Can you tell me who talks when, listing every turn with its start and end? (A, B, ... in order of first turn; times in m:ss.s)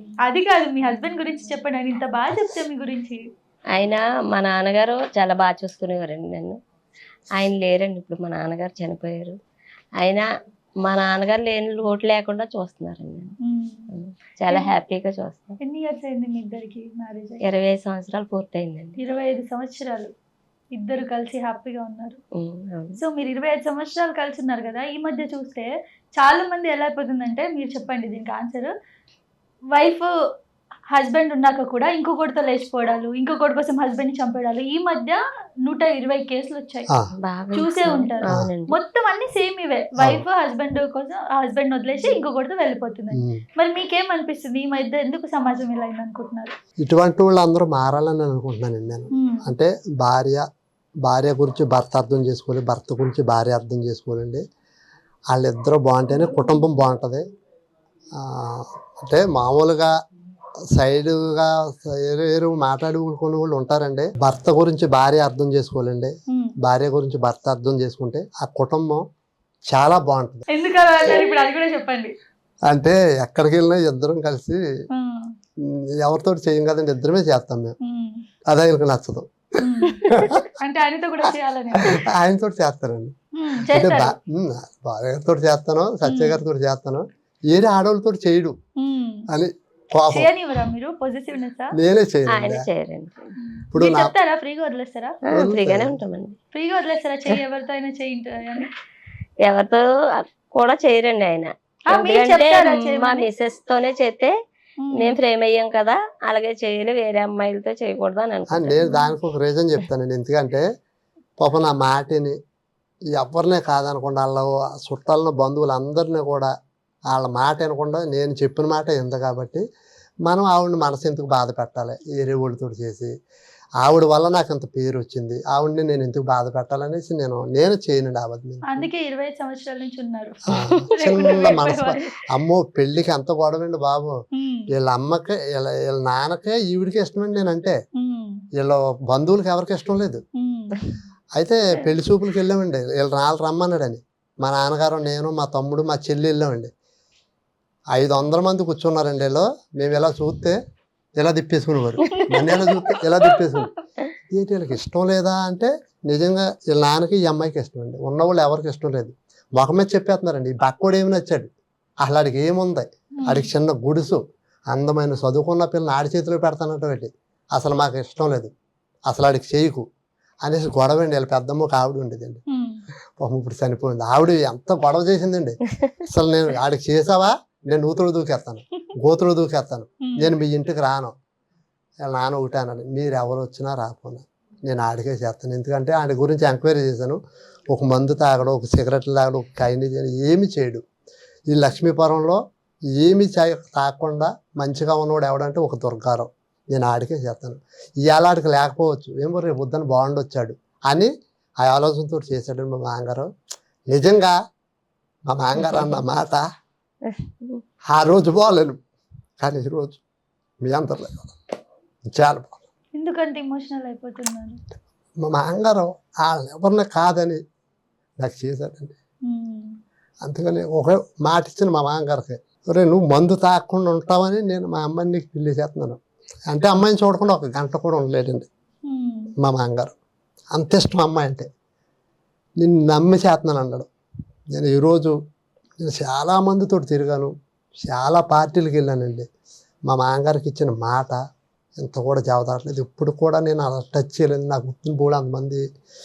0:00.2-0:03.2 A
0:03.7-0:06.6 B
0:07.4-0:09.4 B
0:10.0-0:10.3 B
0:10.8-0:13.3 B
0:13.4-0:13.9 A
0:13.9-0:15.6 B
0:15.6-0:17.4 A
0:17.4-0:19.0 B
0:19.0-0:20.1 A
0:20.7-0:22.2 A
0:22.4-0:23.0 B
0:23.0-0:28.7 A
0:29.7-0:30.1 A
0:30.9-0:36.9 A
0:37.2-0:38.8 B
0:37.5-0:46.5 A
0:43.1-0:43.4 C
0:46.8-0:50.4 C
0:49.1-0:49.5 A
0:51.0-0:54.4 C
0:55.3-0:57.2 C
0:56.1-0:56.6 A
0:58.2-0:59.9 C
1:00.7-1:09.0 C
1:06.3-1:06.5 A
1:09.7-1:10.4 C
1:10.5-1:12.1 A
1:12.7-1:14.6 C
1:14.9-1:15.3 A
1:15.7-1:17.8 C
1:17.8-1:18.2 A
1:18.5-1:20.4 C
1:19.6-1:22.0 A
1:21.8-1:23.1 C
1:23.4-1:24.1 A
1:23.7-1:28.5 C
1:26.0-1:26.4 A
1:28.8-1:29.3 A
1:29.3-1:30.3 C
1:30.1-1:31.7 A
1:31.8-1:32.7 C
1:32.3-1:33.3 B
1:33.4-1:35.2 A
1:33.7-1:34.1 C
1:35.3-1:36.4 B
1:35.3-1:36.0 C
1:36.5-1:38.7 A
1:39.4-1:44.3 B
1:41.9-1:43.3 A
1:44.8-1:45.2 A
1:44.9-1:49.1 B
1:48.5-1:50.6 C
1:51.4-1:52.4 C
1:53.2-1:56.5 C
1:57.1-1:59.6 C
2:00.2-2:03.1 C
2:03.8-2:08.9 C
2:08.7-2:12.1 A
2:10.5-2:14.1 C
2:14.3-2:14.6 A
2:14.7-2:17.7 C
2:18.0-2:18.4 A
2:18.6-2:20.2 C
2:20.4-2:20.9 A
2:21.4-2:26.7 C
2:27.9-2:30.6 C
2:31.2-2:33.7 C
2:32.0-2:33.7 A
2:34.3-2:41.5 C
2:42.0-2:48.5 C
2:43.2-2:43.5 A
2:49.1-2:49.8 C
2:50.4-2:52.4 C
2:52.5-2:52.8 A
2:53.2-3:01.1 C
3:00.0-3:00.3 A
3:02.0-3:10.8 C
3:11.5-3:12.4 C
3:12.9-3:23.3 C
3:23.9-3:24.4 C
3:25.3-3:26.4 C
3:27.1-3:27.6 B
3:27.9-3:28.8 C
3:29.4-3:30.0 C
3:30.6-3:31.4 C
3:32.1-3:32.6 C
3:33.0-3:34.6 A
3:35.2-3:37.4 C
3:38.2-3:38.9 C
3:39.3-3:39.8 A
3:40.2-3:48.5 C
3:48.9-3:49.3 A
3:49.4-3:49.9 C
3:50.5-3:51.5 C
3:52.6-3:53.9 C
3:54.5-3:55.2 C
3:55.8-3:59.2 C
3:59.9-4:01.2 C
4:01.8-4:05.6 C